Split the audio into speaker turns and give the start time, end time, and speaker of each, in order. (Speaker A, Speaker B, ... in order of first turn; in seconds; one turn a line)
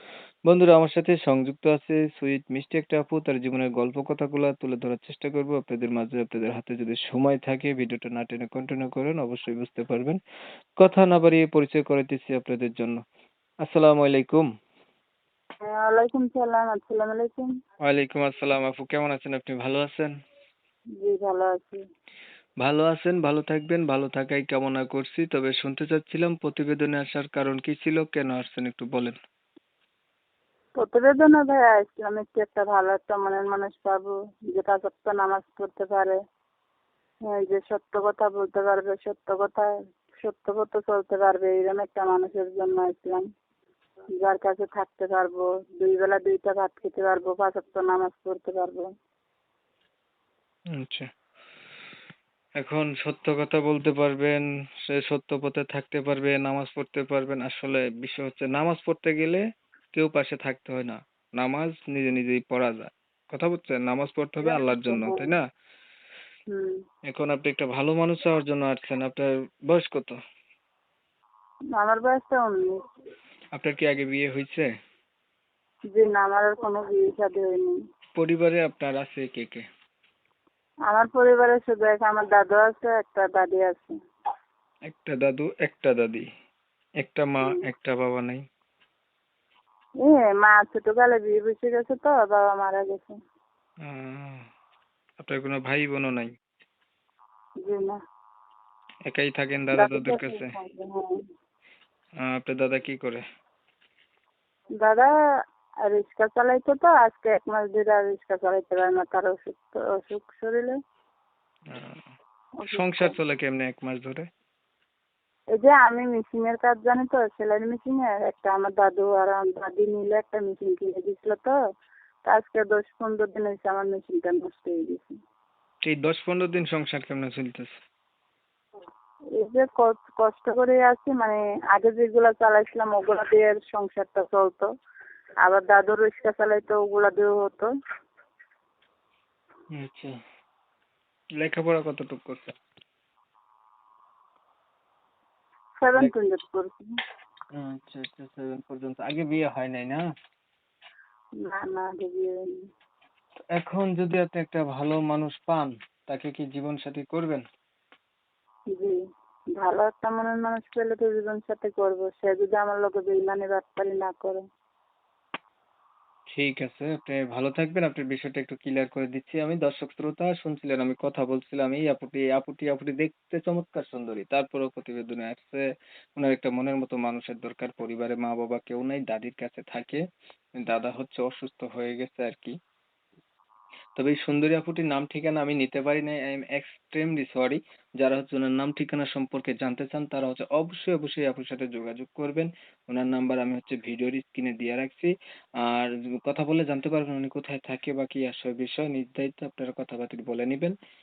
Speaker A: 0.5-10.2
Speaker A: 10.8-13.0
Speaker A: 13.6-14.5
Speaker B: 15.6-17.5
Speaker A: 17.8-20.1
Speaker B: 21.0-21.8
Speaker A: 22.6-29.2
Speaker B: 30.8-36.2
Speaker B: 37.3-43.2
Speaker B: 44.2-48.9
Speaker A: 50.7-51.1
Speaker A: 52.6-59.4
Speaker A: 59.9-65.4
Speaker B: 64.4-65.2
Speaker A: 67.1-70.2
Speaker B: 71.8-72.8
Speaker A: 73.5-74.7
Speaker B: 75.9-77.7
Speaker A: 78.2-79.7
Speaker B: 80.9-83.9
Speaker A: 84.9-86.2
Speaker A: 87.0-88.4
Speaker B: 90.0-93.1
Speaker A: 93.8-94.4
Speaker A: 95.2-96.3
Speaker B: 97.6-98.0
Speaker A: 99.1-100.5
Speaker B: 99.8-101.1
Speaker A: 102.2-103.2
Speaker B: 104.8-105.1
Speaker B: 105.9-110.8
Speaker A: 111.7-112.0
Speaker B: 112.6-113.1
Speaker A: 112.7-114.2
Speaker B: 115.5-121.6
Speaker B: 122.3-125.2
Speaker A: 125.8-127.7
Speaker B: 129.4-134.7
Speaker B: 135.4-137.7
Speaker A: 139.7-140.2
Speaker A: 141.4-142.5
Speaker B: 145.8-146.9
Speaker A: 147.5-150.0
Speaker B: 151.4-152.5
Speaker A: 153.5-157.4
Speaker B: 159.6-164.4
Speaker A: 166.3-175.6
Speaker A: 176.2-180.0
Speaker A: 180.6-182.5
Speaker A: 184.0-195.1
Speaker A: 195.6-200.8